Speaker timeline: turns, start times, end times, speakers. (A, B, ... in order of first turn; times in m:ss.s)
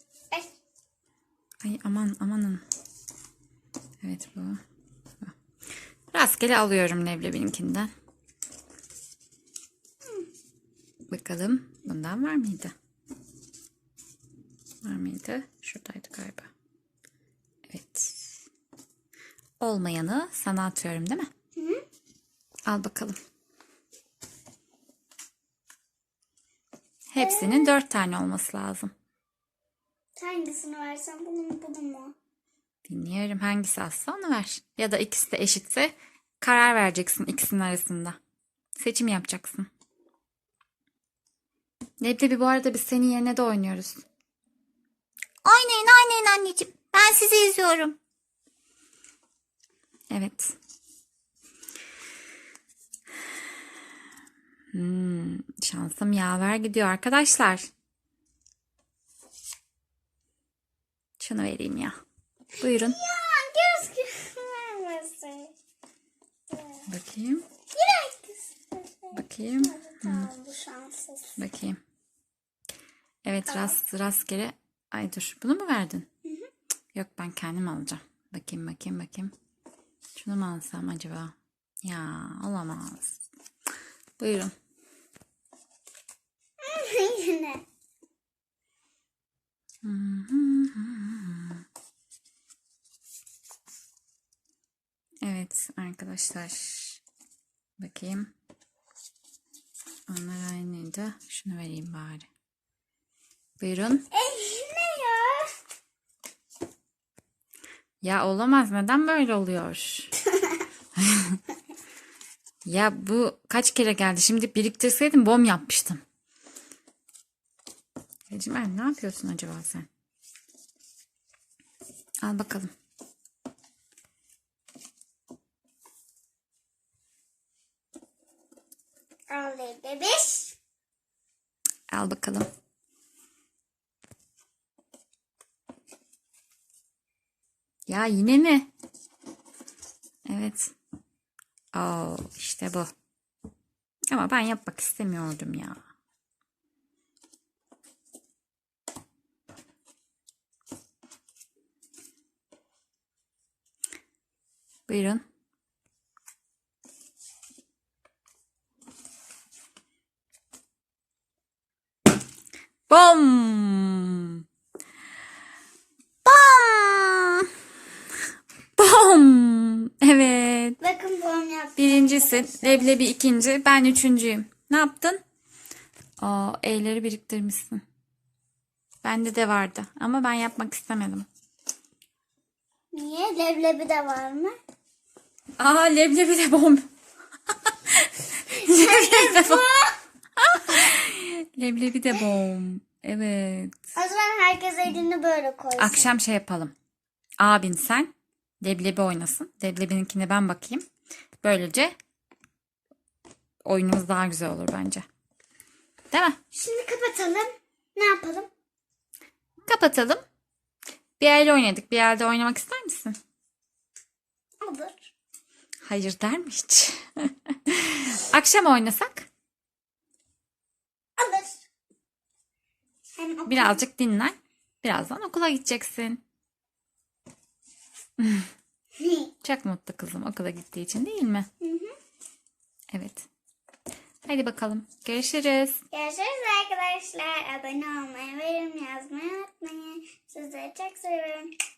0:01.6-0:02.6 A
0:04.0-0:04.6 A
0:06.1-0:07.9 A
0:11.1-0:12.7 A
0:14.8-0:16.5 A
0:17.7-0:18.3 A
0:19.6-0:21.3 A
0:21.6-0:21.8 B
0:22.7-0:23.2 A
0:27.1-0:28.9 A
0:27.2-0:27.8 B
0:30.2-0:32.1 B
0:32.9-0:38.2 A
0:38.8-0:39.7 A
0:42.0-0:44.0 A
0:45.5-0:48.0 C
0:50.1-0:50.5 A
0:54.7-0:57.7 A
1:01.2-1:02.0 A
1:02.6-1:05.5 B
1:02.6-1:03.0 A
1:06.5-1:06.8 B
1:06.9-1:07.4 A
1:07.7-1:11.4 B
1:09.1-1:10.3 A
1:11.4-1:11.8 A
1:13.2-1:16.1 A
1:13.5-1:13.8 B
1:16.2-1:16.5 B
1:17.0-1:19.3 A
1:20.2-1:23.2 A
1:24.2-1:24.5 A
1:26.6-1:27.6 B
1:29.8-1:31.6 A
1:35.2-1:37.0 A
1:37.8-1:38.3 A
1:40.1-1:42.3 A
1:43.6-1:44.0 A
1:44.1-1:45.5 B
1:48.0-1:50.1 A
1:51.0-1:51.4 A
1:52.7-1:56.0 A
1:58.3-1:59.9 A
2:02.2-2:02.7 A
2:09.3-2:10.6 B
2:11.9-2:12.5 A
2:17.9-2:18.7 A
2:20.3-2:20.7 A
2:21.8-2:22.9 A
2:24.1-2:25.8 A
2:34.9-2:35.2 A
2:42.9-2:44.4 A
2:46.3-2:47.5 A
2:48.8-2:50.8 A
2:50.8-2:53.0 B
2:51.8-2:55.2 A
2:56.2-2:57.8 A
2:59.0-3:01.3 A
3:02.9-3:04.6 B
3:05.6-3:06.8 A
3:07.7-3:09.6 A
3:08.5-3:10.0 B
3:10.4-3:13.7 A
3:14.0-3:16.2 B
3:15.8-3:16.7 A
3:17.4-3:18.1 A
3:18.6-3:20.8 A
3:21.4-3:21.9 A
3:23.6-3:25.0 A
3:26.1-3:26.4 A
3:26.5-3:28.5 B
3:29.7-3:30.2 A
3:31.2-3:33.2 A
3:34.6-3:35.1 B
3:35.8-3:39.3 A
3:41.2-3:41.6 B
3:43.2-3:43.8 B
3:43.5-3:46.2 A
3:48.2-3:48.5 A
3:49.0-3:49.3 B
3:49.4-3:51.5 A
3:51.6-3:51.9 B
3:52.9-3:53.3 A
3:54.3-3:55.8 A
3:55.9-4:01.5 B